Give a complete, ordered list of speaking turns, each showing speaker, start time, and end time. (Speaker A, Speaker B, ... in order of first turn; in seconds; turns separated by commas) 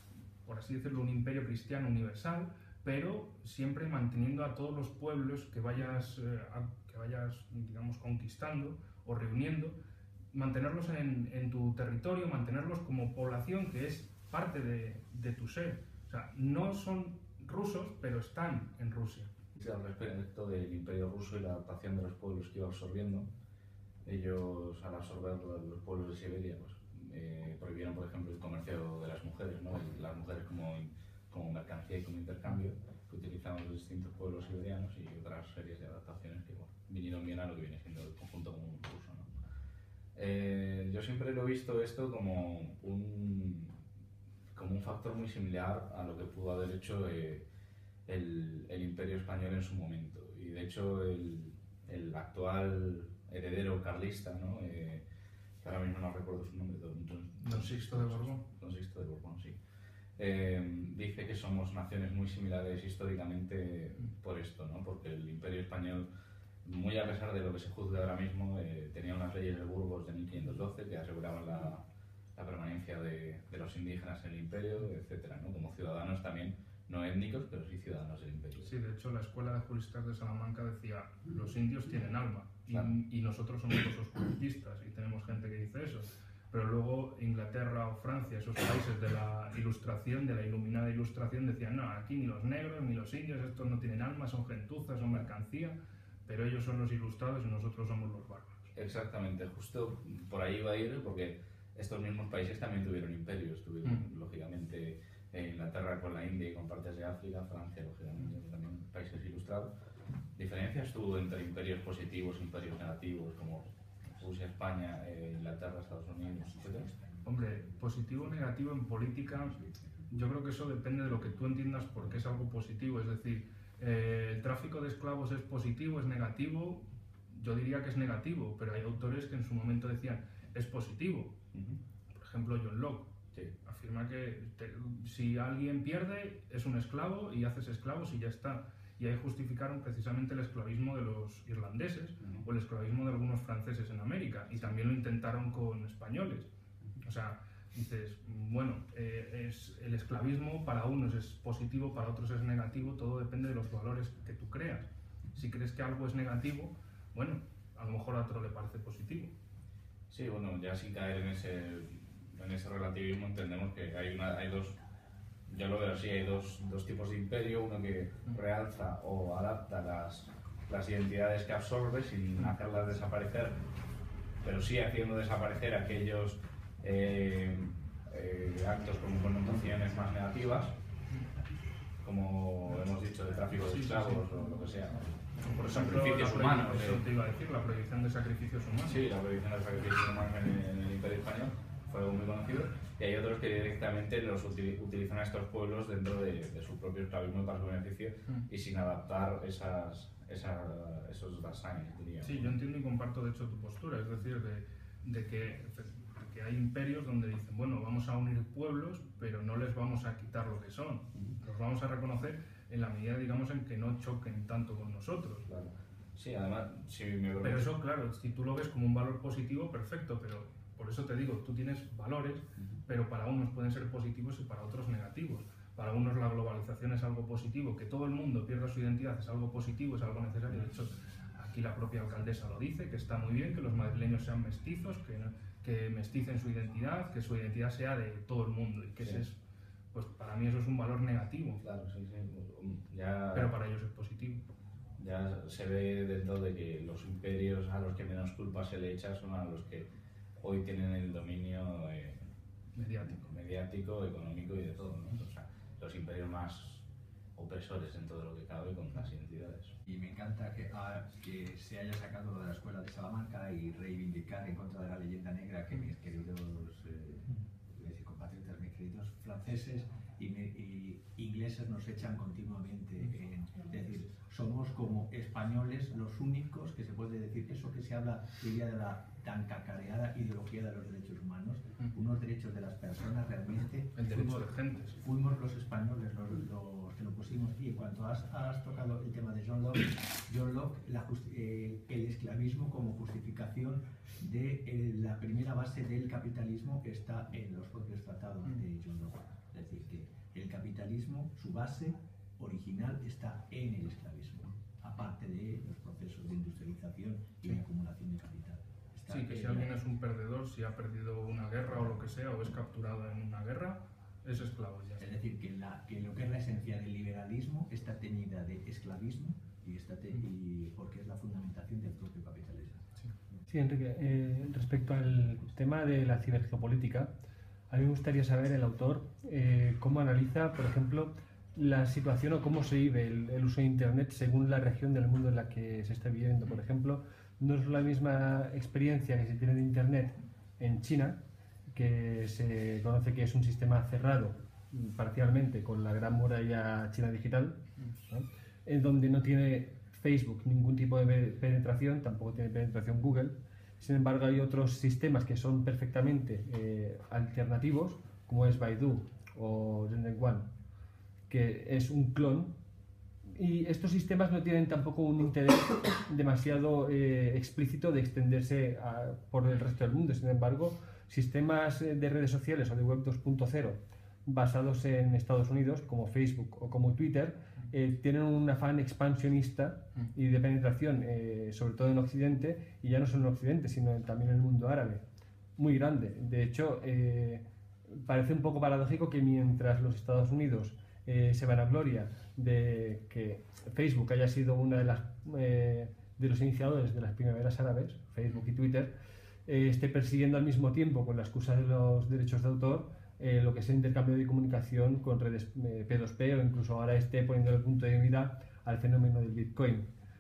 Speaker A: 0.4-9.8, Speaker A: 10.3-19.3, Speaker B: 19.6-23.3, Speaker B: 24.0-39.3, Speaker B: 40.1-43.7, Speaker B: 44.5-47.4, Speaker B: 48.0-55.0, Speaker B: 55.6-59.6, Speaker A: 57.4-58.4, Speaker B: 60.2-66.1, Speaker B: 66.6-71.8, Speaker B: 72.3-78.7, Speaker A: 78.6-98.7, Speaker B: 98.7-109.7, Speaker B: 110.3-116.9, Speaker C: 116.8-117.6, Speaker A: 117.2-119.5, Speaker A: 120.1-131.3, Speaker B: 131.5-131.8, Speaker A: 132.1-133.1, Speaker A: 133.6-146.5, Speaker A: 147.0-159.3, Speaker B: 160.1-164.8, Speaker B: 165.5-173.6, Speaker B: 174.4-180.7, Speaker B: 182.0-187.0, Speaker A: 183.6-184.2, Speaker A: 185.5-189.0, Speaker B: 188.8-202.5, Speaker A: 202.2-215.5, Speaker B: 215.5-217.7, Speaker A: 217.4-239.4, Speaker A: 239.9-241.6, Speaker B: 241.6-243.5, Speaker A: 243.3-244.4, Speaker B: 245.0-252.2, Speaker A: 252.7-253.3, Speaker B: 253.1-259.7, Speaker C: 259.9-309.7, Speaker A: 283.9-285.0, Speaker A: 309.1-315.1, Speaker C: 315.0-322.8, Speaker D: 323.5-327.1, Speaker D: 327.7-341.2, Speaker D: 341.7-360.5, Speaker D: 361.3-362.5, Speaker D: 363.3-385.0, Speaker D: 385.6-398.9, Speaker D: 399.4-409.9